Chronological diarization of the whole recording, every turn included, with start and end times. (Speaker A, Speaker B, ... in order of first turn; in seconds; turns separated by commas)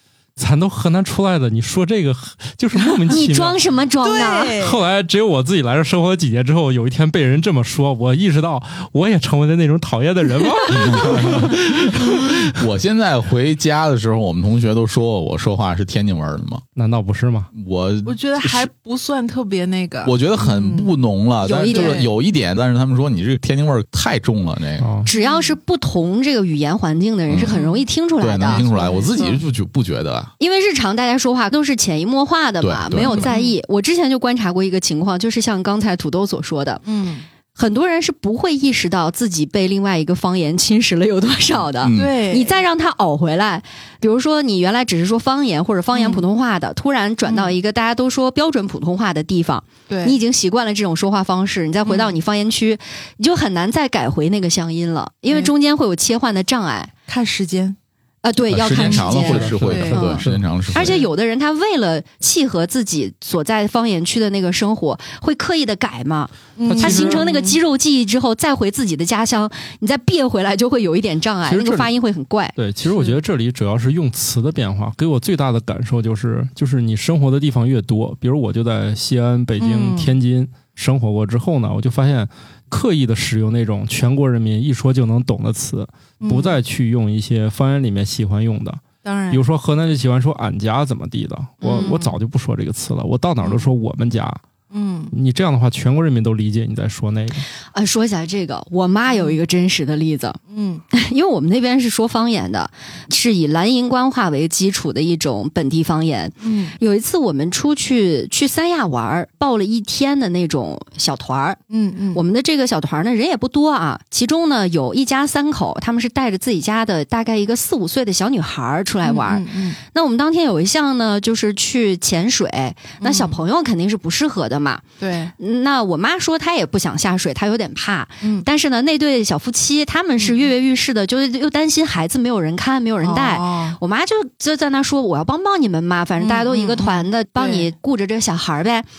Speaker A: 0.4-3.6, Speaker B: 3.1-4.6, Speaker C: 4.0-4.8, Speaker A: 4.6-12.5, Speaker D: 10.7-11.6, Speaker D: 12.4-16.6, Speaker A: 16.8-17.5, Speaker D: 17.5-18.7, Speaker C: 18.1-20.9, Speaker D: 20.1-24.9, Speaker B: 21.4-22.1, Speaker C: 21.7-22.1, Speaker A: 24.8-25.1, Speaker B: 25.1-28.6, Speaker C: 25.1-25.6, Speaker D: 27.3-27.6, Speaker C: 27.4-27.9, Speaker D: 28.2-30.3, Speaker C: 28.4-29.4, Speaker B: 30.4-36.8, Speaker D: 32.6-33.3, Speaker C: 33.0-33.6, Speaker C: 36.9-37.2, Speaker B: 37.5-56.9, Speaker D: 41.8-42.2, Speaker C: 41.9-42.6, Speaker C: 45.9-46.3, Speaker C: 47.3-47.5, Speaker C: 49.9-50.2, Speaker C: 51.9-52.2, Speaker C: 57.1-57.8, Speaker B: 58.2-72.6, Speaker D: 58.5-61.0, Speaker A: 58.8-60.4, Speaker C: 58.8-60.0, Speaker C: 66.6-67.6, Speaker A: 66.7-67.2, Speaker A: 71.5-71.9, Speaker A: 72.6-94.4, Speaker C: 79.6-80.2, Speaker C: 86.2-86.6, Speaker C: 89.0-89.4, Speaker B: 91.6-92.2, Speaker C: 94.7-95.2, Speaker A: 95.1-97.5, Speaker B: 97.7-100.4, Speaker C: 99.1-99.4, Speaker C: 100.5-100.8, Speaker B: 100.9-111.6, Speaker C: 106.4-106.8, Speaker C: 111.7-112.2, Speaker B: 112.1-124.8, Speaker C: 119.0-119.8, Speaker C: 123.0-123.4, Speaker C: 125.0-125.3, Speaker B: 125.4-138.9, Speaker C: 130.2-130.5, Speaker C: 133.0-133.8, Speaker C: 136.2-137.7